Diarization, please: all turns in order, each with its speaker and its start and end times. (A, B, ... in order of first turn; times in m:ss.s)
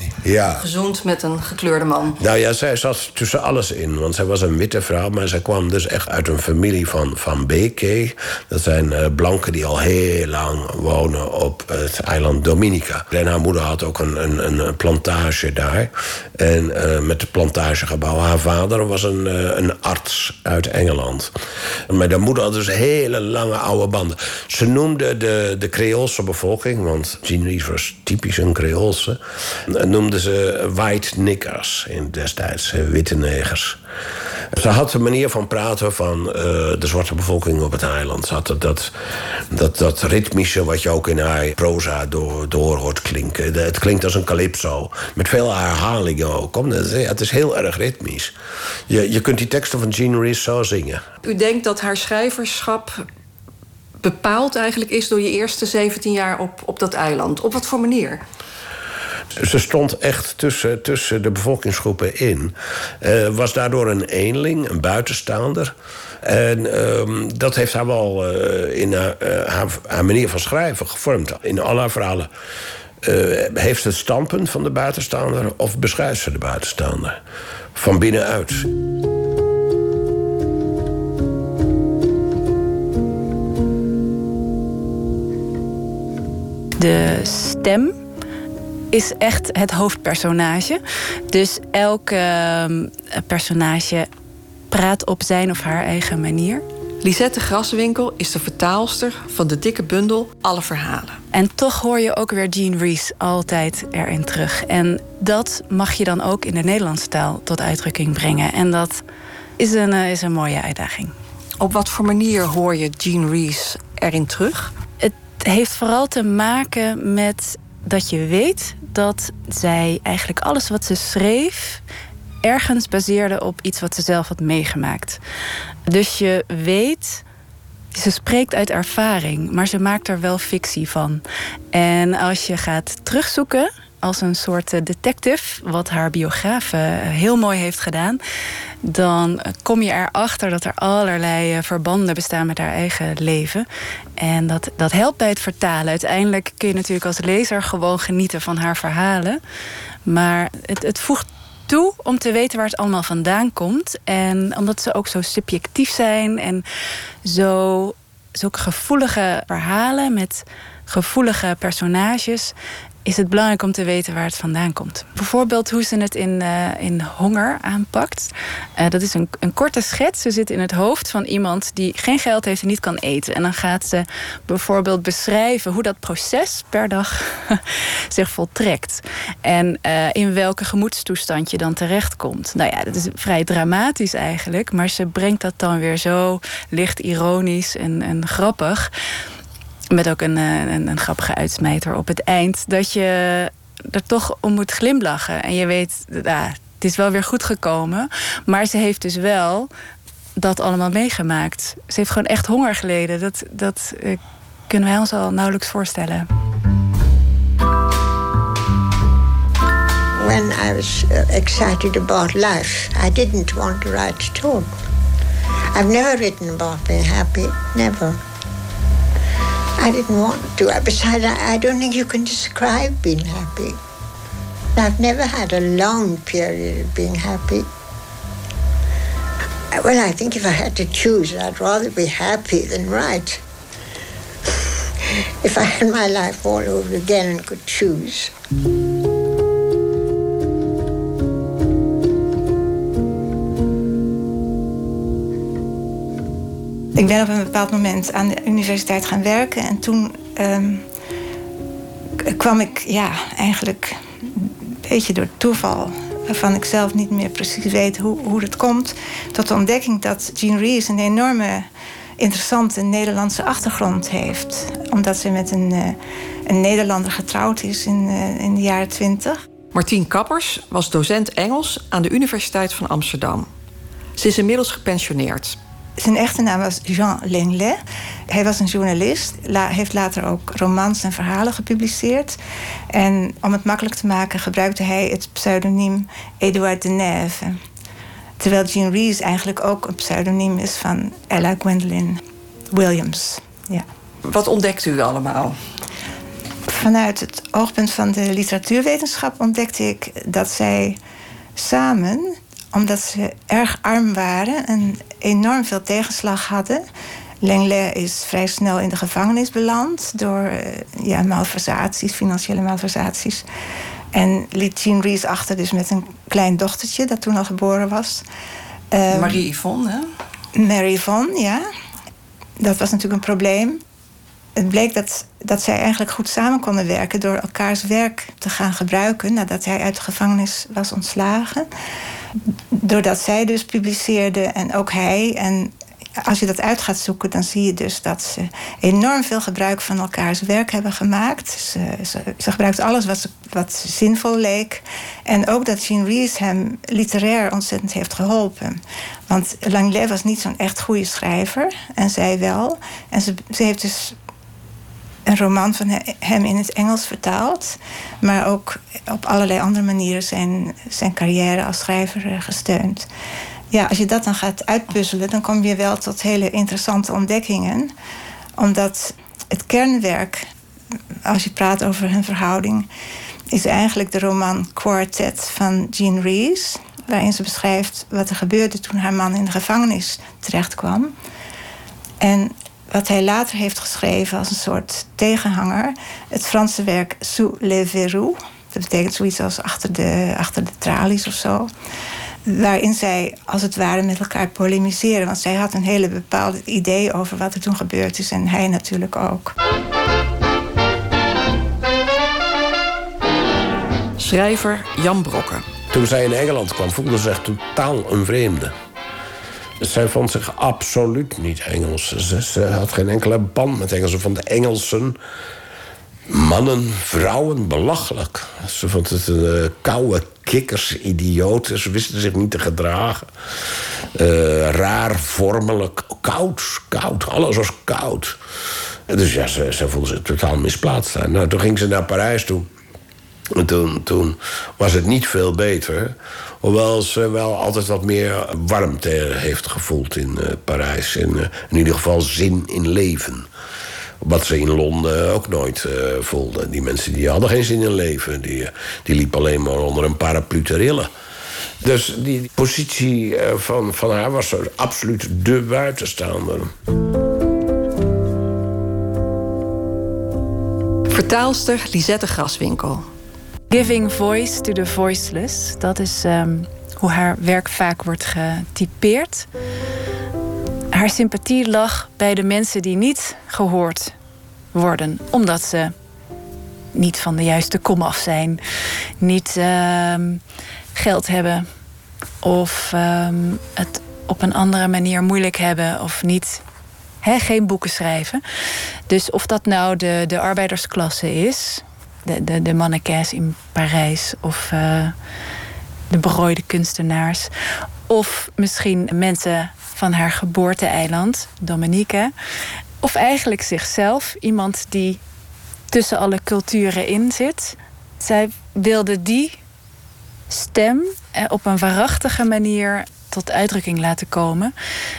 0:00.2-0:00.6 A
0:00.6-0:02.2 B
0:02.2-0:21.3 A
0:21.9-0:33.8 A
0:34.5-0:38.9 A
0:39.5-0:48.3 A
0:48.9-0:51.0 A
0:51.2-0:53.0 B
0:54.0-0:58.2 B
0:59.4-1:12.3 A
1:13.0-1:17.2 A
1:17.7-1:18.7 A
1:26.8-1:27.9 C
1:28.9-1:34.1 C
1:34.7-1:36.6 C
1:37.0-1:41.2 B
1:41.3-1:49.0 C
1:49.6-1:51.1 C
1:51.6-1:54.7 B
1:55.0-2:01.8 C
2:02.4-2:05.2 C
2:05.9-2:07.2 C
2:07.9-2:11.2 C
2:11.7-2:18.2 C
2:18.8-2:23.6 C
2:24.2-2:29.4 C
2:30.0-2:36.6 C
2:37.2-3:08.9 C
3:09.9-3:19.7 C
3:20.4-3:26.3 C
3:30.2-3:34.7 D
3:35.7-3:38.2 D
3:39.8-3:43.8 D
3:44.8-3:47.6 D
3:49.7-3:53.4 D
3:55.4-3:58.3 D
4:06.9-4:10.8 E
4:12.2-4:29.4 E
4:29.7-4:33.5 B
4:34.2-4:35.6 B
4:36.0-4:42.4 E
4:42.9-4:47.6 E
4:48.4-4:52.2 E
4:52.7-4:53.8 E
4:54.2-4:55.6 B
4:56.7-5:01.0 E
5:01.6-5:06.8 E
5:07.4-5:13.4 E
5:14.1-5:18.2 E
5:18.9-5:19.4 E
5:19.1-5:20.1 B
5:20.6-5:21.6 E
5:22.6-5:23.8 E
5:24.6-5:31.7 E
5:32.7-5:54.2 E
5:55.3-6:03.1 E
6:03.7-6:07.9 E
6:08.6-6:10.4 E
6:11.2-6:12.9 E
6:13.5-6:21.1 E
6:22.2-6:31.7 E
6:32.4-6:39.5 E
6:44.2-6:45.6 B
6:45.9-6:48.7 A
6:49.8-6:55.2 A
6:56.3-7:03.3 A
7:04.1-7:08.4 A
7:09.1-7:12.7 A
7:13.5-7:23.5 A
7:24.2-7:31.1 A
7:31.8-7:36.7 A
7:41.1-7:43.1 B
7:43.7-7:49.5 C
7:50.9-7:54.1 C
7:54.7-7:55.9 C
7:56.9-7:58.6 C
7:59.2-8:00.4 C
8:00.9-8:01.7 C
8:02.4-8:06.6 C
8:07.2-8:08.4 C
8:09.1-8:15.1 C
8:16.1-8:17.5 C
8:18.1-8:22.3 C
8:23.0-8:25.2 C
8:25.9-8:29.6 C
8:30.5-8:34.7 C